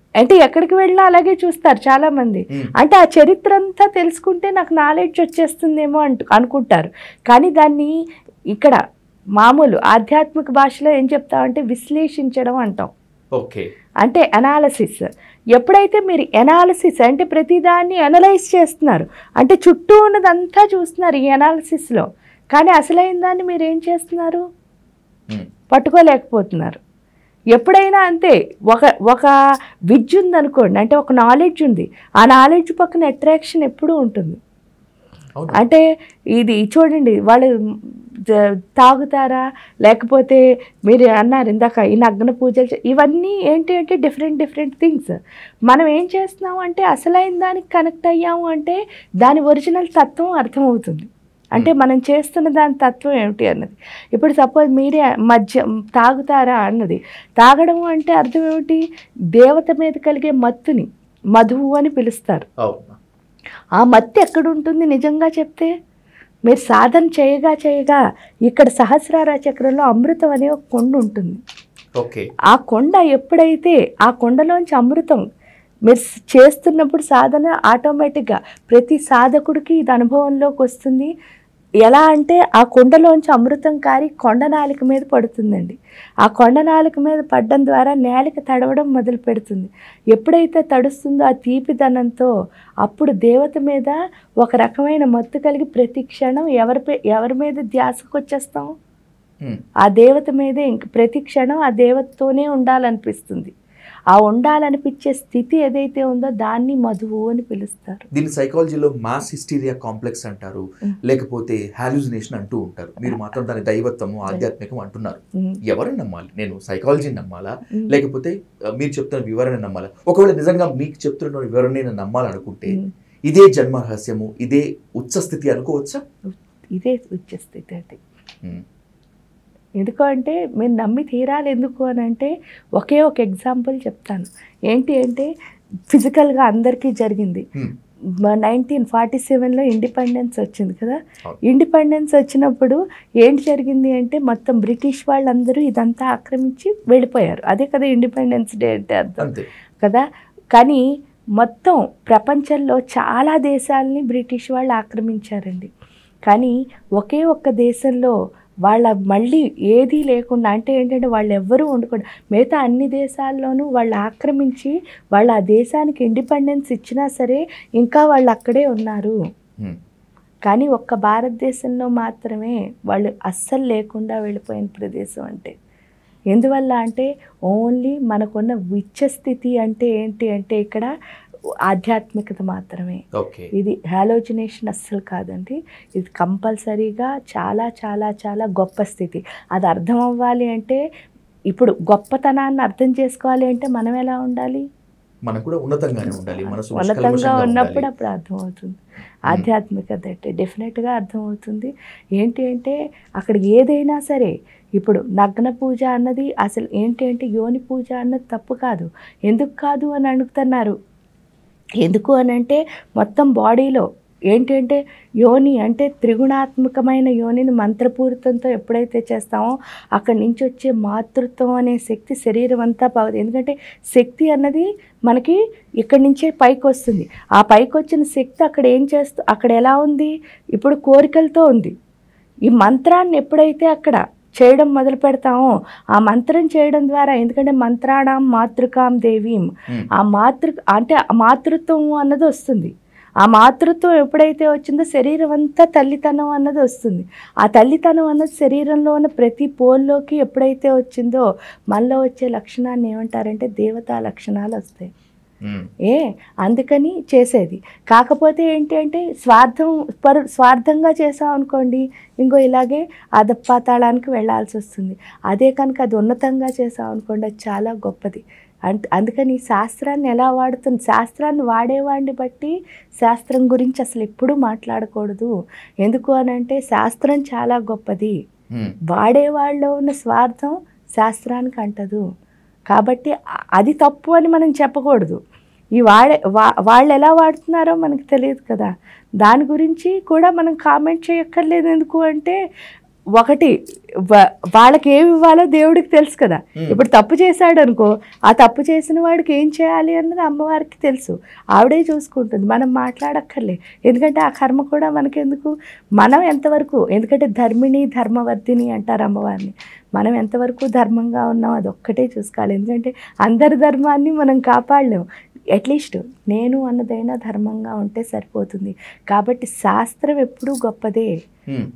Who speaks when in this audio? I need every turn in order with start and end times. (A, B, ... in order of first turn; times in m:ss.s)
0:00.2-0:07.9 A
0:09.4-0:12.9 A
0:13.4-0:13.6 B
0:14.0-0:24.4 A
0:25.7-0:26.8 A
0:27.6-0:29.3 A
0:29.9-0:34.4 A
0:35.5-0:35.8 A
0:36.4-0:45.2 A
0:45.7-0:58.8 A
0:59.4-1:02.5 A
1:02.6-1:03.0 B
1:03.8-1:05.7 A
1:06.5-1:11.4 A
1:12.0-1:12.3 B
1:12.5-1:15.2 A
1:15.9-1:21.1 A
1:21.8-1:32.3 A
1:32.8-1:38.7 A
1:39.8-1:43.5 A
1:44.1-1:48.1 A
1:48.1-2:02.8 B
2:03.3-2:06.0 B
2:06.3-2:08.0 A
2:09.8-2:15.3 A
2:15.9-2:17.5 A
2:18.3-2:29.3 A
2:29.2-2:29.5 B
2:30.6-2:30.8 A
2:31.4-2:35.7 A
2:36.3-2:38.1 A
2:38.7-2:49.2 A
2:50.5-2:55.5 A
2:56.3-3:00.9 A
3:01.7-3:03.0 A
3:03.2-3:03.5 B
3:03.6-3:10.8 A
3:11.5-3:14.6 A
3:15.3-3:17.9 B
3:16.3-3:18.8 A
3:19.3-3:30.8 A
3:31.8-3:51.7 A
3:52.5-4:02.7 A
4:03.2-4:14.9 A
4:15.9-4:35.3 A
4:35.8-4:38.2 A
4:38.9-4:42.0 A
4:42.7-4:45.2 A
4:45.8-4:48.7 A
4:49.2-4:52.4 A
4:53.2-4:53.5 A
4:54.1-5:15.0 A
5:15.6-5:21.1 A